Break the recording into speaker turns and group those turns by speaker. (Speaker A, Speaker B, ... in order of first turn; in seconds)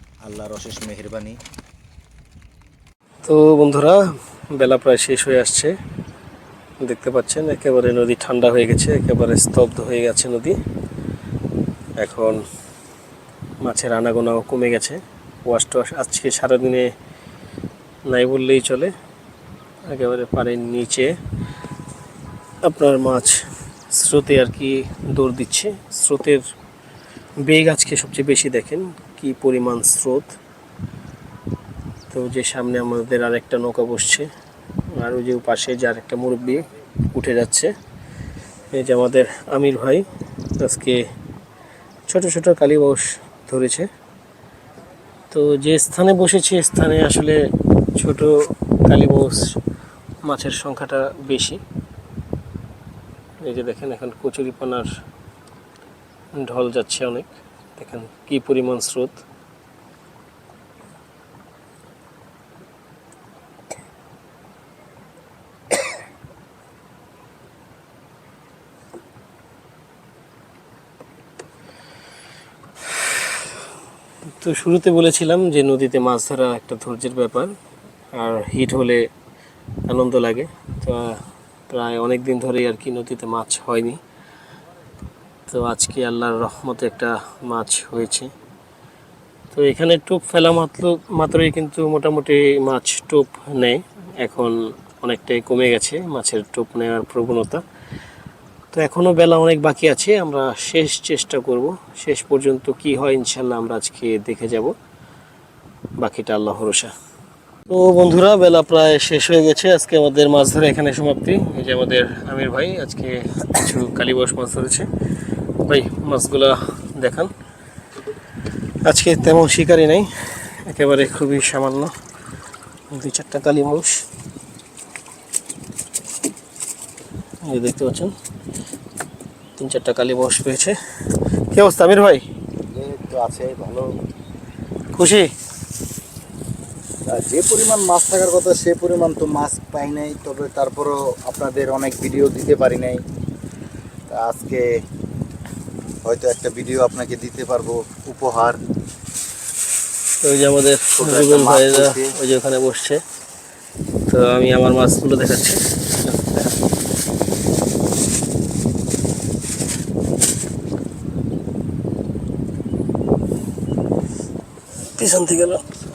Speaker A: 0.2-1.4, 132.7-133.9, 137.1-143.0, 144.1-144.7, 146.0-148.6, 150.9-152.2
Speaker B: 3.2-4.0, 4.5-5.8, 6.8-10.6, 12.0-12.4, 13.6-16.9, 18.1-18.9, 19.8-21.2, 22.6-26.4, 27.4-30.4, 32.1-34.3, 34.9-37.7, 38.7-40.1, 40.6-41.0, 42.1-43.9, 45.3-49.6, 50.2-51.6, 53.4-54.9, 56.4-59.2, 74.4-77.5, 78.1-79.1, 79.8-84.0, 85.5-88.3, 89.5-97.6, 98.7-104.7, 106.0-106.9, 107.7-114.9, 115.6-117.3, 118.8-122.0, 122.9-124.0, 127.5-128.1, 129.6-132.3, 134.9-135.3, 150.2-153.0, 154.1-156.5, 164.9-165.7